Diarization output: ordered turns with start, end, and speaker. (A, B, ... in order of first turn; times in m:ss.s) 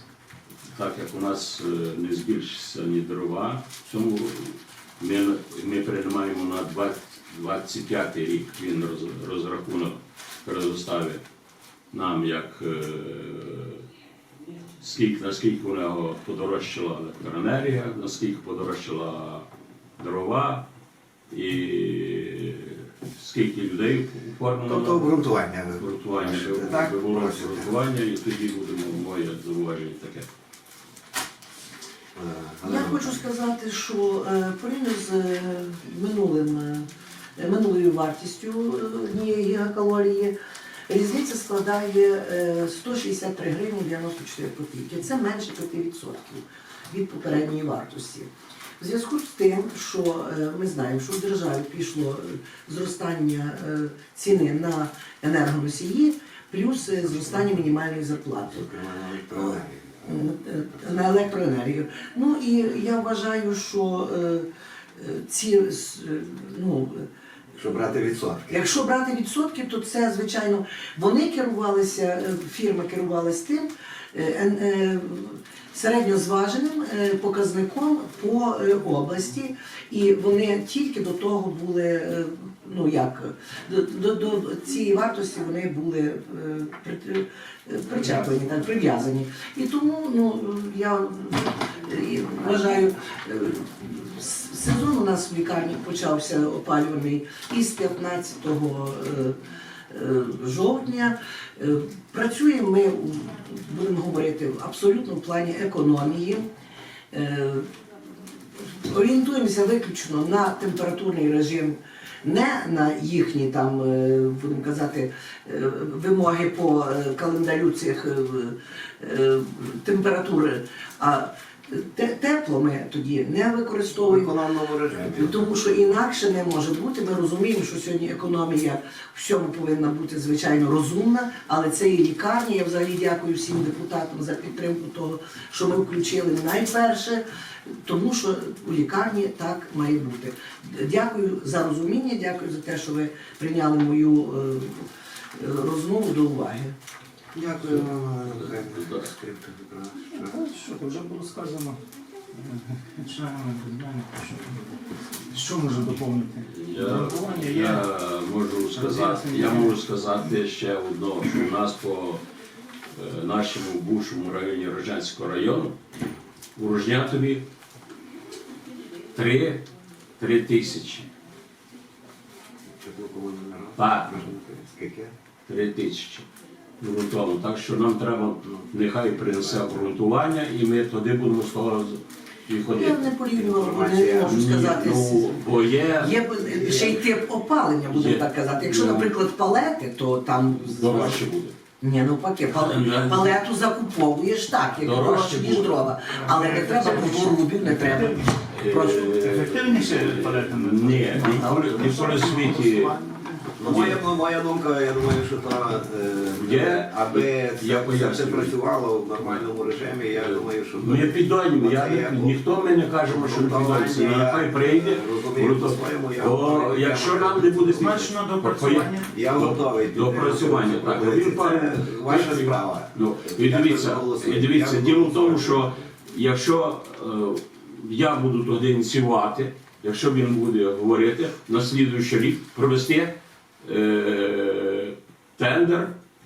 0:00.7-0:11.2 A
0:11.9-0:13.8 A
0:14.8-0:19.5 A
0:20.0-0:20.7 A
0:21.3-0:30.3 A
0:24.6-0:27.7 B
0:32.1-0:33.2 B
0:32.6-0:40.3 C
0:40.9-0:58.6 C
0:58.5-1:00.2 B
0:59.3-1:07.1 C
1:00.7-1:01.2 B
1:07.5-1:08.8 B
1:08.5-1:39.4 C
1:27.9-1:28.4 B
1:39.9-1:46.5 C
1:47.1-1:47.7 C
1:48.6-2:04.3 C
2:04.0-2:05.5 B
2:04.9-2:26.7 C
2:27.3-2:30.4 B
2:27.6-2:29.1 A
2:30.2-2:31.8 D
2:32.3-2:34.7 D
2:35.3-2:37.9 D
2:36.5-2:42.2 A
2:38.7-2:39.8 D
2:42.9-2:45.8 A
2:46.6-2:47.5 A
2:49.1-2:51.1 A
2:52.7-2:55.1 B
2:53.8-2:54.2 A
2:55.4-2:56.2 A
2:56.8-3:03.1 A
2:59.0-2:59.9 B
3:02.7-3:11.2 C
3:03.3-3:04.5 B
3:04.2-3:07.0 A
3:07.9-3:09.1 A
3:10.5-3:11.5 A
3:11.8-3:19.2 C
3:12.5-3:13.4 A
3:14.8-3:15.9 A
3:16.1-3:23.8 D
3:18.5-3:23.0 A
3:23.6-3:38.1 B
3:23.6-3:24.0 A
3:26.3-3:28.6 A
3:29.1-3:29.5 A
3:30.1-3:55.9 A
3:37.7-3:39.1 D
3:39.1-3:46.0 B